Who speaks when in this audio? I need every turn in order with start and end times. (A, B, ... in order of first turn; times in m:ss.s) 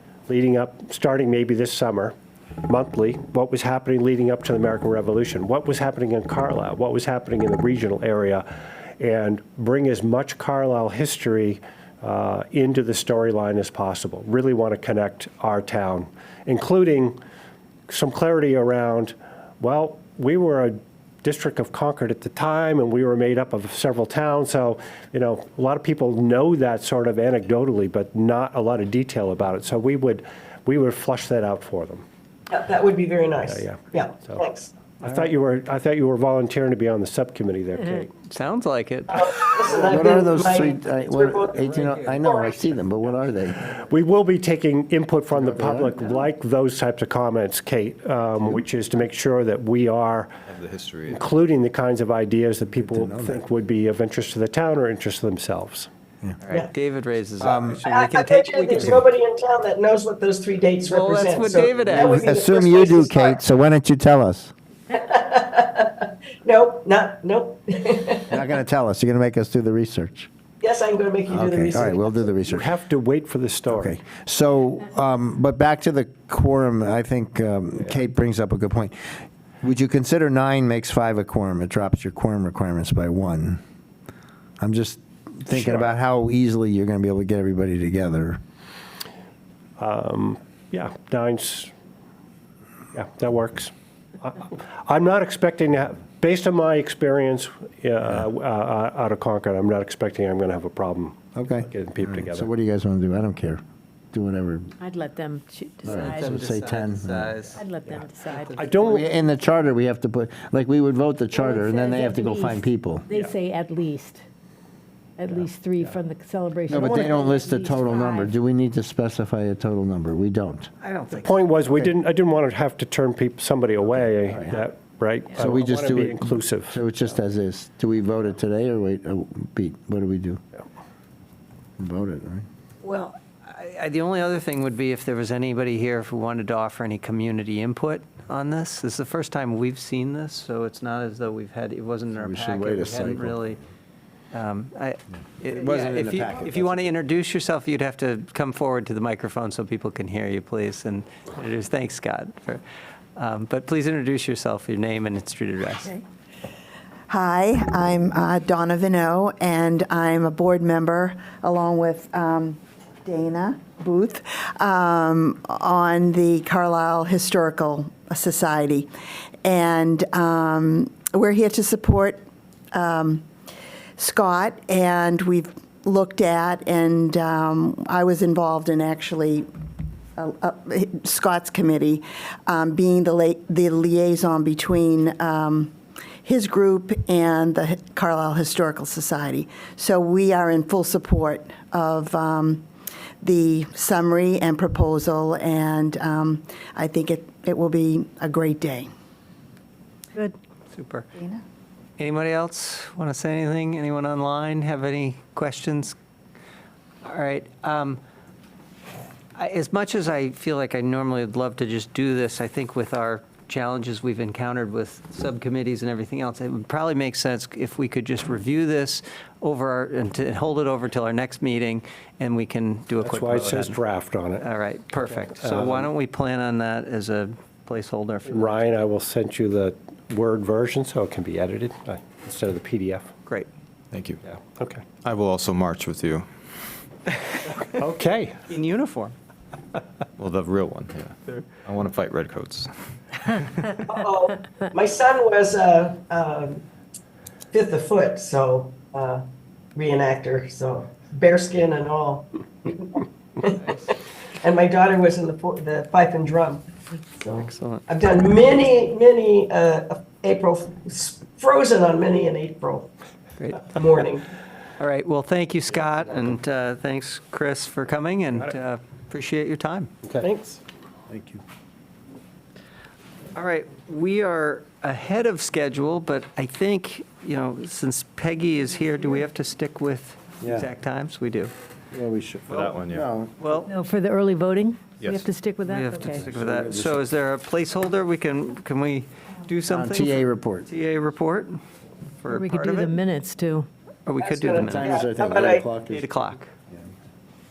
0:00.3-0:02.2 A
0:02.7-0:08.5 A
0:09.0-0:17.2 A
0:17.9-0:32.0 A
0:32.5-0:34.7 B
0:33.5-0:34.4 A
0:35.0-0:38.1 A
0:38.3-0:39.3 C
0:39.1-0:42.7 B
0:39.8-0:43.6 D
0:43.7-0:50.3 A
0:45.3-0:46.0 D
0:50.5-0:51.2 E
0:51.1-0:55.9 A
0:52.8-0:53.4 D
0:56.4-0:59.1 C
0:57.4-1:03.4 B
0:57.4-0:57.8 D
1:00.8-1:02.3 C
1:02.0-1:04.5 D
1:04.9-1:08.4 B
1:08.3-1:10.3 D
1:10.6-1:12.1 B
1:11.3-1:12.7 D
1:12.5-1:14.0 A
1:13.7-1:23.6 D
1:24.6-1:28.4 D
1:25.5-1:25.9 A
1:29.8-1:31.7 A
1:32.9-1:42.5 A
1:41.4-1:43.6 D
1:44.1-1:44.7 D
1:44.8-1:46.4 F
1:45.8-1:47.3 D
1:45.9-1:47.6 C
1:47.5-1:48.6 F
1:48.4-1:48.8 C
1:48.5-1:49.1 A
1:48.8-1:53.1 D
1:51.3-1:54.2 F
1:55.2-1:58.3 F
1:56.7-2:00.7 D
1:56.7-1:57.1 A
2:00.8-2:01.4 C
2:01.2-2:06.8 A
2:05.3-2:10.4 D
2:11.8-2:12.5 D
2:12.8-2:23.6 C
2:22.2-2:23.5 D
2:24.3-2:32.6 C
2:25.5-2:26.9 D
2:33.2-2:36.0 C
2:37.1-2:48.9 G
2:49.4-2:52.2 G
2:52.7-2:53.3 G
2:54.0-2:59.5 G
3:00.2-3:12.6 G
3:13.2-3:18.9 G
3:20.7-3:21.1 C
3:21.2-3:21.4 G
3:22.0-3:26.0 C
3:27.0-3:28.0 C
3:29.4-3:43.8 C
3:43.0-3:44.4 A
3:44.4-3:48.6 C
3:45.4-3:45.9 A
3:48.3-3:53.1 A
3:53.9-3:54.2 E
3:54.3-3:54.8 A
3:55.0-3:56.3 E
3:57.8-3:58.5 A
3:58.5-3:59.2 C
4:00.2-4:03.6 E
4:03.9-4:06.6 B
4:07.5-4:09.2 B
4:09.8-4:22.9 B
4:17.3-4:17.8 C
4:23.4-4:23.7 C
4:23.6-4:24.3 B
4:24.8-4:29.9 C
4:30.2-4:30.6 B
4:31.1-4:31.4 D
4:33.4-4:41.5 C
4:40.4-4:40.7 D
4:41.9-4:43.3 D
4:42.5-4:43.1 E
4:43.4-4:43.7 C
4:43.7-4:46.3 F
4:45.0-4:45.3 E
4:45.6-4:51.6 C
4:46.1-4:47.0 D
4:49.7-4:50.7 D
4:52.2-4:53.0 C
4:52.3-4:53.7 F
4:54.1-4:55.0 C
4:54.2-4:55.7 B
4:54.5-4:56.1 D
4:55.9-4:56.5 C